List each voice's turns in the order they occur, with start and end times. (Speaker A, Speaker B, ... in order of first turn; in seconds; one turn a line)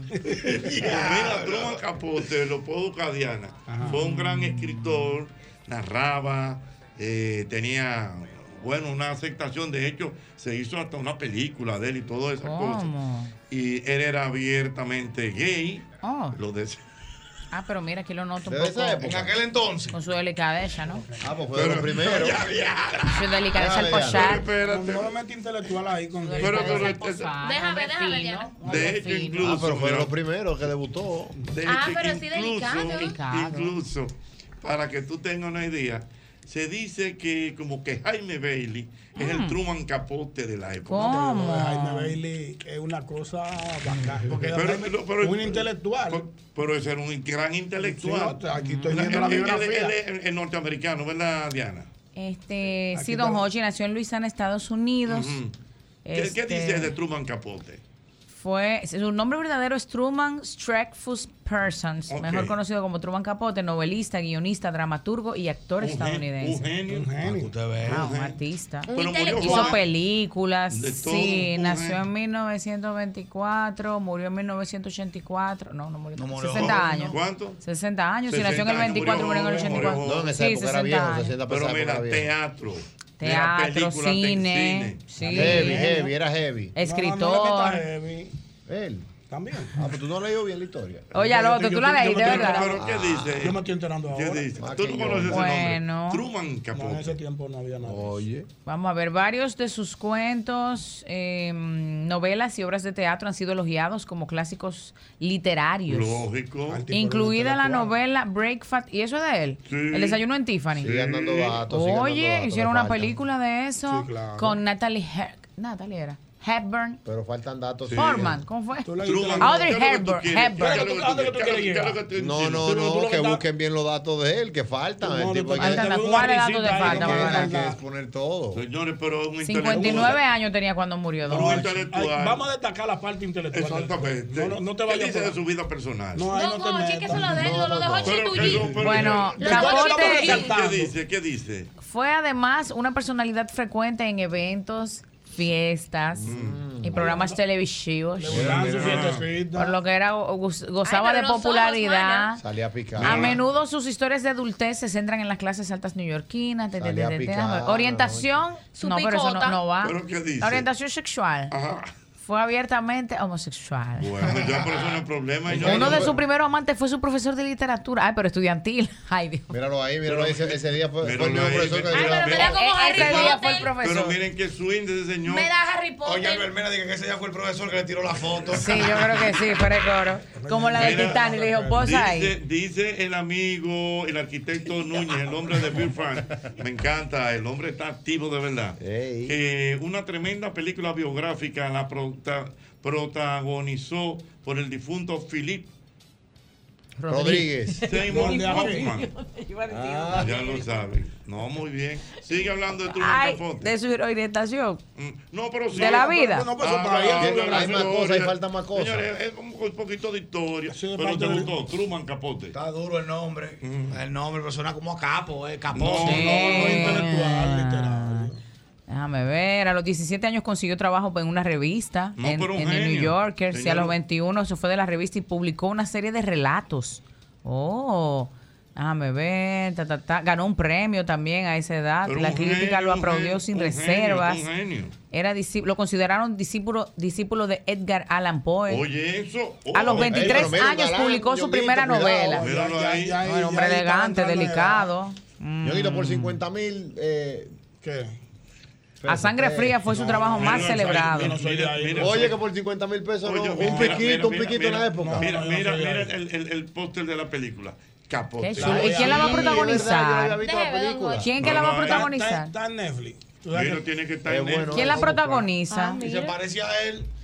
Speaker A: 0.1-0.4
Speaker B: 0.5-1.8
Speaker C: 0.6-12.9
Speaker A: 3.7-4.1
Speaker D: 3.9-4.8
Speaker D: 12.4-13.3
Speaker C: 13.5-16.8
Speaker D: 16.0-16.4
Speaker D: 17.5-19.0
Speaker E: 18.5-19.3
Speaker B: 19.0-20.0
Speaker D: 19.9-21.1
Speaker E: 21.2-22.4
Speaker C: 21.5-22.6
Speaker B: 22.1-23.3
Speaker D: 23.1-24.5
Speaker E: 23.6-24.4
Speaker C: 23.9-25.1
Speaker A: 24.5-26.9
Speaker D: 26.2-29.5
Speaker C: 26.4-27.3
Speaker F: 27.4-28.6
Speaker C: 28.6-30.1
Speaker E: 29.4-31.3
Speaker C: 31.5-41.2
Speaker F: 31.7-33.2
Speaker D: 32.9-33.7
Speaker D: 39.2-39.6
Speaker D: 40.9-42.1
Speaker A: 41.0-46.2
Speaker C: 44.3-51.9
Speaker A: 47.8-49.9
Speaker D: 48.6-49.1
Speaker D: 52.1-55.4
Speaker A: 52.9-53.4
Speaker C: 55.1-55.5
Speaker D: 56.0-56.9
Speaker C: 56.1-57.8
Speaker D: 58.3-66.7
Speaker C: 62.1-62.6
Speaker C: 65.8-67.3
Speaker A: 66.9-67.5
Speaker B: 67.2-68.1
Speaker C: 67.8-68.4
Speaker D: 67.9-81.4
Speaker F: 68.9-69.8
Speaker C: 68.9-69.8
Speaker C: 70.7-72.0
Speaker B: 76.2-77.2
Speaker C: 76.5-77.6
Speaker C: 78.3-80.4
Speaker A: 79.6-79.8
Speaker E: 80.0-82.3
Speaker C: 81.5-85.6
Speaker D: 83.2-86.0
Speaker A: 85.2-86.1
Speaker E: 85.3-86.7
Speaker D: 86.8-87.8
Speaker A: 86.8-88.3
Speaker E: 88.7-89.1
Speaker A: 89.3-89.8
Speaker E: 89.8-91.1
Speaker D: 91.2-92.7
Speaker A: 91.2-92.8
Speaker C: 92.0-97.2
Speaker E: 92.6-93.5
Speaker A: 93.4-94.6
Speaker E: 94.6-95.5
Speaker D: 95.2-96.2
Speaker A: 96.7-98.2
Speaker E: 97.8-98.5
Speaker D: 98.7-106.2
Speaker C: 105.9-106.9
Speaker A: 106.7-108.0
Speaker D: 106.9-110.9
Speaker C: 109.7-110.2
Speaker C: 110.8-111.7
Speaker E: 110.8-113.2
Speaker D: 111.7-117.0
Speaker A: 113.9-114.6
Speaker E: 117.0-118.3
Speaker C: 117.9-118.3
Speaker D: 118.0-120.8
Speaker A: 118.8-119.7
Speaker C: 119.0-122.8
Speaker A: 120.5-122.0
Speaker E: 122.2-126.0
Speaker A: 122.6-123.4
Speaker A: 125.0-127.8
Speaker D: 125.6-127.6
Speaker E: 126.8-128.6
Speaker C: 128.5-130.2
Speaker D: 129.4-131.6
Speaker A: 129.6-130.2
Speaker A: 131.2-135.4
Speaker C: 131.2-132.4
Speaker C: 133.5-136.3
Speaker A: 136.2-137.6
Speaker F: 136.3-138.8
Speaker E: 137.1-138.4
Speaker C: 138.0-141.7
Speaker D: 138.8-140.4
Speaker A: 138.8-140.9
Speaker F: 139.4-140.5
Speaker D: 141.8-148.4
Speaker E: 146.2-147.1
Speaker C: 146.3-146.6
Speaker A: 146.9-147.4
Speaker A: 148.2-149.8
Speaker C: 148.3-149.3
Speaker E: 148.3-149.2
Speaker D: 149.6-152.4
Speaker F: 150.8-152.3
Speaker E: 152.4-153.4
Speaker C: 153.0-153.4
Speaker D: 153.0-161.5
Speaker E: 156.8-158.4
Speaker F: 158.7-159.6
Speaker C: 159.8-160.7
Speaker C: 161.5-161.9
Speaker D: 162.2-164.2
Speaker C: 164.0-166.1
Speaker B: 164.2-164.9
Speaker E: 165.5-166.1
Speaker D: 165.6-169.5
Speaker E: 169.5-172.5
Speaker C: 170.1-175.5
Speaker F: 171.9-173.7
Speaker D: 172.3-174.2
Speaker F: 175.2-176.5
Speaker B: 176.1-179.2
Speaker D: 178.6-182.3
Speaker A: 180.3-181.9
Speaker C: 180.7-195.7
Speaker E: 188.8-189.4
Speaker D: 197.0-200.6
Speaker E: 197.1-197.8
Speaker C: 197.9-199.1
Speaker A: 198.0-198.9
Speaker E: 199.7-200.6
Speaker C: 200.1-203.7
Speaker D: 202.9-204.8
Speaker C: 205.0-212.6
Speaker A: 205.7-207.9
Speaker D: 205.7-206.5
Speaker E: 207.2-209.1
Speaker A: 210.7-211.5
Speaker B: 212.5-216.8
Speaker C: 213.6-214.0
Speaker C: 215.7-217.1
Speaker D: 216.1-218.3
Speaker A: 216.1-218.4
Speaker D: 218.9-234.4
Speaker C: 222.2-223.9
Speaker C: 232.1-234.9
Speaker D: 235.1-238.8
Speaker C: 238.7-240.7
Speaker D: 239.7-242.4
Speaker E: 240.0-242.4
Speaker A: 242.2-244.9
Speaker C: 242.4-243.3
Speaker D: 243.3-246.4
Speaker E: 245.6-247.5
Speaker A: 247.8-248.2
Speaker E: 249.0-250.6
Speaker D: 249.1-251.4
Speaker A: 249.9-252.3
Speaker C: 250.3-252.4
Speaker E: 252.0-255.3
Speaker C: 253.2-259.1
Speaker A: 253.6-254.0
Speaker A: 255.0-256.1
Speaker D: 258.4-260.4
Speaker A: 258.6-259.6
Speaker E: 258.6-261.3
Speaker F: 260.4-261.3
Speaker D: 261.2-262.5
Speaker C: 261.4-262.1
Speaker A: 261.6-263.8
Speaker C: 263.5-265.1
Speaker E: 264.3-265.5
Speaker D: 264.7-266.0
Speaker F: 265.7-266.4
Speaker B: 266.0-267.1